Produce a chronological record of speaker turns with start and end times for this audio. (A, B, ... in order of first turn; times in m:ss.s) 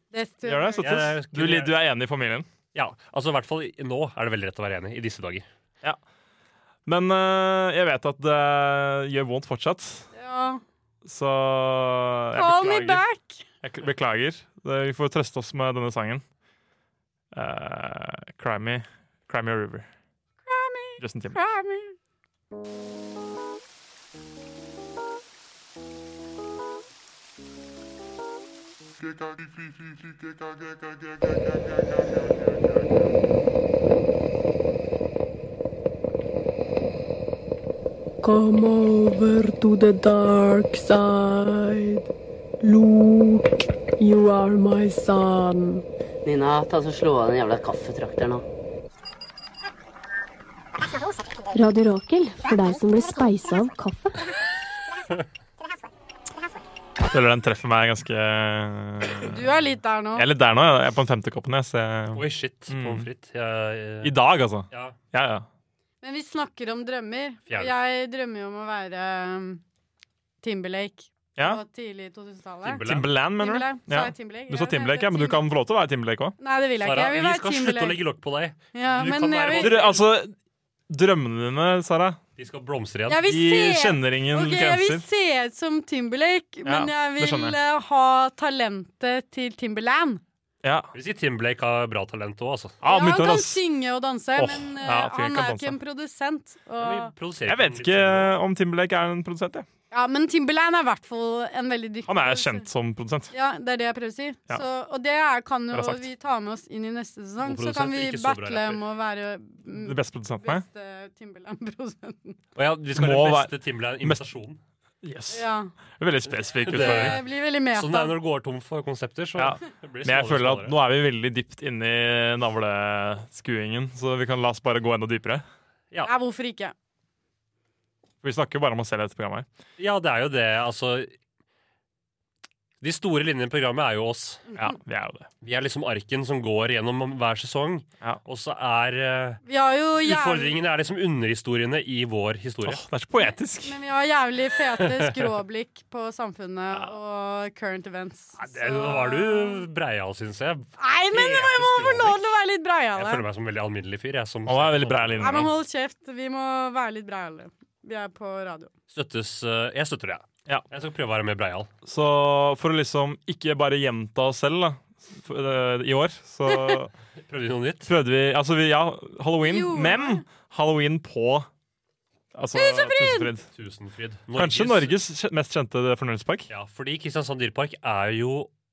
0:00.1-0:00.9 A
0:00.4-0:02.5 B
0:00.8-0:01.8 C
0:02.7-0:05.4 C
0:06.8-0:10.1 B
0:10.1-0:10.6 A
0:11.0-0:13.0 B
0:12.3-0:13.4 A
0:13.6-0:16.2 B
0:17.3-0:19.9 B
0:20.4-0:21.9 A
0:21.0-0:21.4 B
0:38.2-0:42.1 D
0:42.6-0:43.4 D
0:44.0-0:45.8 D
0:46.2-0:48.4 E
0:51.5-0:54.2 F
0:57.0-0:59.4 B
0:59.2-1:00.2 A
1:00.1-1:03.1 B
1:02.1-1:04.1 C
1:04.0-1:05.5 B
1:04.7-1:05.0 C
1:06.0-1:09.6 A
1:07.5-1:07.7 C
1:10.4-1:12.8 A
1:12.6-1:13.1 C
1:12.8-1:16.3 B
1:13.4-1:15.4 A
1:16.4-1:18.0 A
1:16.8-1:20.0 C
1:18.7-1:19.9 A
1:19.6-1:20.3 B
1:20.9-1:22.2 B
1:22.4-1:23.2 C
1:23.1-1:30.2 A
1:23.2-1:25.0 B
1:26.6-1:27.6 B
1:30.6-1:30.9 B
1:30.9-1:32.8 C
1:32.8-1:33.6 B
1:32.9-1:37.1 A
1:34.4-1:35.8 B
1:36.8-1:38.4 C
1:37.5-1:39.6 B
1:39.9-1:42.6 A
1:42.1-1:43.3 B
1:43.3-1:52.4 A
1:45.7-1:46.0 B
1:47.4-1:48.8 C
1:49.7-1:50.6 B
1:52.5-1:54.6 C
1:52.9-1:54.2 B
1:55.0-1:55.5 B
1:55.3-1:55.7 A
1:56.0-1:57.2 B
1:56.3-2:00.8 C
1:56.7-1:58.1 A
1:59.4-2:05.4 B
2:06.0-2:06.7 A
2:08.2-2:09.5 B
2:09.8-2:11.1 C
2:12.8-2:14.4 C
2:14.5-2:15.3 B
2:15.4-2:19.4 C
2:19.4-2:20.5 A
2:20.0-2:22.8 C
2:22.6-2:23.7 B
2:23.6-2:29.6 A
2:28.4-2:32.3 C
2:30.8-2:33.2 A
2:33.0-2:35.5 C
2:34.4-2:35.5 B
2:35.2-2:38.7 A
2:38.9-2:41.7 C
2:41.8-2:46.9 B
2:46.5-2:46.8 A
2:47.3-2:47.9 C
2:47.8-2:51.5 B
2:49.4-2:50.2 A
2:52.3-2:53.5 B
2:52.5-2:53.3 A
2:53.5-2:55.0 C
2:54.3-2:56.5 B
2:56.5-2:58.5 C